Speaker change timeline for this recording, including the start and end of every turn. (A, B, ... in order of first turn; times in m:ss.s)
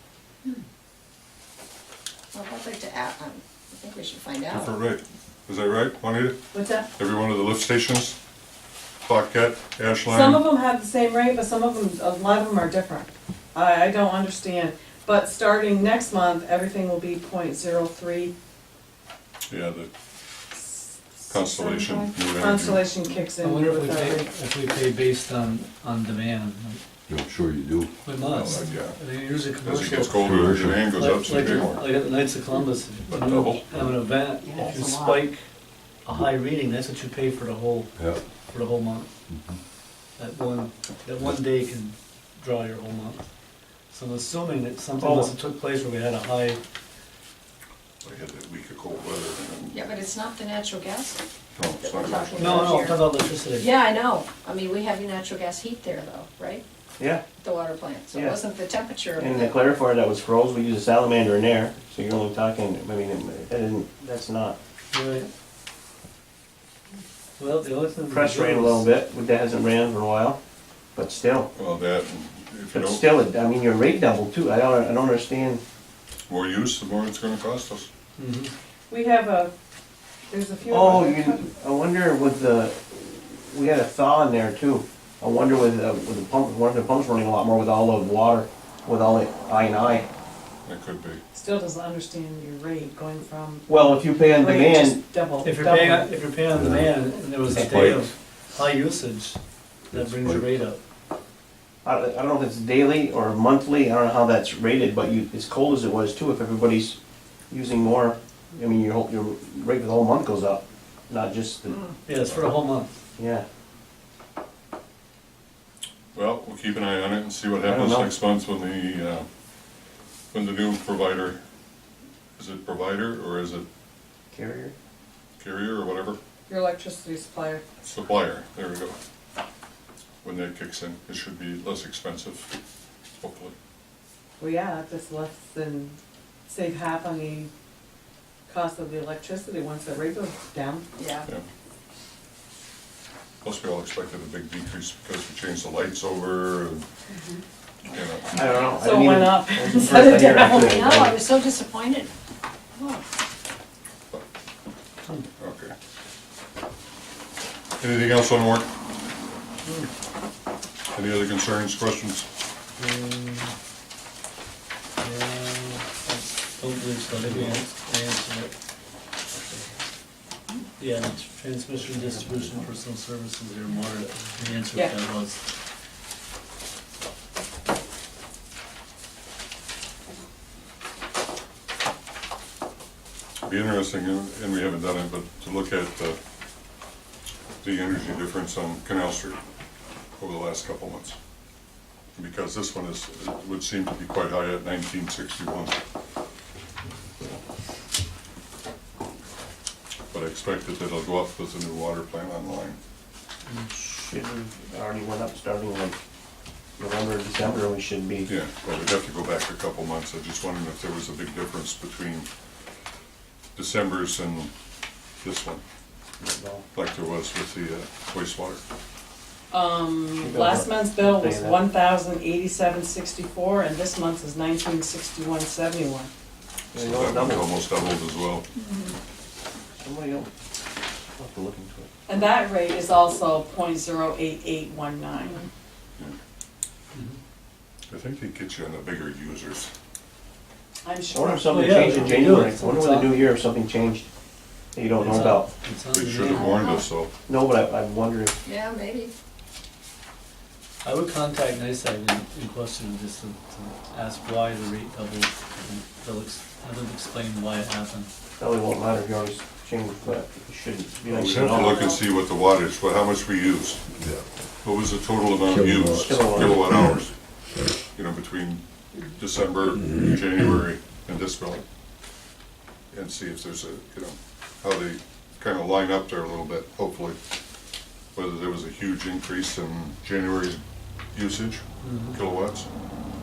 0:02.3-0:04.8 A
0:04.5-0:06.4 B
0:06.5-0:06.9 C
0:07.0-0:08.2 B
0:09.0-0:10.5 B
0:10.1-0:18.3 C
0:19.5-0:19.9 B
0:20.6-0:24.3 C
0:21.3-0:23.2 B
0:23.4-0:26.8 D
0:27.1-0:27.9 E
0:28.0-0:30.3 D
0:28.2-0:32.0 B
0:30.2-0:31.0 E
0:31.0-0:35.4 D
0:33.1-0:33.7 B
0:34.4-0:35.1 A
0:36.0-0:39.1 D
0:38.0-0:38.2 E
0:39.3-0:39.6 E
0:40.2-0:43.3 D
0:43.9-0:46.6 D
0:45.0-0:45.3 F
0:48.0-0:49.8 B
0:49.7-0:51.2 A
0:51.6-0:52.8 B
0:51.8-0:56.6 A
0:52.4-0:53.7 D
0:57.4-0:59.6 A
0:58.1-0:58.4 F
0:59.2-1:04.6 F
1:04.9-1:05.3 D
1:07.4-1:08.9 D
1:08.1-1:10.4 F
1:11.0-1:11.5 F
1:11.6-1:13.1 B
1:12.7-1:15.6 F
1:16.3-1:17.9 B
1:18.2-1:18.5 D
1:18.9-1:19.5 C
1:20.3-1:21.5 C
1:20.7-1:30.1 F
1:30.6-1:31.2 B
1:31.3-1:36.2 C
1:33.7-1:35.0 F
1:35.4-1:39.4 D
1:36.6-1:37.0 E
1:39.9-1:40.8 D
1:39.9-1:40.5 E
1:41.8-1:47.0 F
1:47.5-1:51.8 F
1:52.1-1:53.0 D
1:52.1-1:52.6 B
1:53.2-1:53.4 F
1:56.1-1:59.3 B
1:57.6-1:58.1 F
2:00.3-2:01.4 B
2:02.4-2:03.7 B
2:04.3-2:04.7 F
2:05.4-2:06.2 B
2:06.5-2:07.6 C
2:07.8-2:09.0 B
2:10.2-2:12.5 B
2:13.2-2:13.5 B
2:14.4-2:16.0 C
2:16.5-2:17.5 C
2:18.5-2:20.9 C
2:21.0-2:21.3 A
2:23.4-2:26.9 B
2:27.8-2:28.5 B
2:28.3-2:31.2 F
2:28.7-2:30.8 C
2:30.5-2:32.1 A
2:32.8-2:33.0 A
2:35.4-2:35.7 B
2:37.8-2:38.7 B
2:40.9-2:42.3 B
2:42.8-2:43.5 D
2:45.0-2:48.5 D
2:47.2-2:47.6 F
2:50.8-2:55.4 D
2:51.8-2:52.6 F
3:03.4-3:06.2 B
3:07.6-3:09.4 B
3:10.2-3:11.2 B
3:12.2-3:15.8 B
3:20.1-3:22.8 B
3:23.5-3:26.0 F
3:26.8-3:28.3 F
3:28.3-3:32.3 B
3:33.6-3:34.5 B
3:35.2-3:35.6 B
3:36.2-3:36.6 F
3:36.7-3:38.6 B
3:39.5-3:46.1 C
3:40.2-3:41.6 F
3:46.7-3:47.6 F
3:46.8-3:48.4 B
3:49.8-3:50.3 F
3:51.2-3:51.9 F
3:52.1-3:55.5 C
3:57.9-3:59.7 B
4:00.8-4:02.2 C
4:01.1-4:04.1 F
4:01.4-4:03.3 D
4:04.7-4:05.5 F
4:05.0-4:06.5 D
4:05.9-4:07.1 B
4:06.3-4:06.9 A
4:07.3-4:08.3 F
4:08.4-4:09.1 A
4:10.8-4:18.1 D
4:18.4-4:21.8 F
4:21.1-4:23.8 B
4:24.6-4:27.1 B
4:25.5-4:26.9 E
4:26.0-4:26.6 F
4:27.9-4:28.6 B
4:29.1-4:31.6 B
4:32.9-4:37.2 B
4:38.1-4:40.6 B
4:41.1-4:42.7 B
4:41.8-4:42.2 D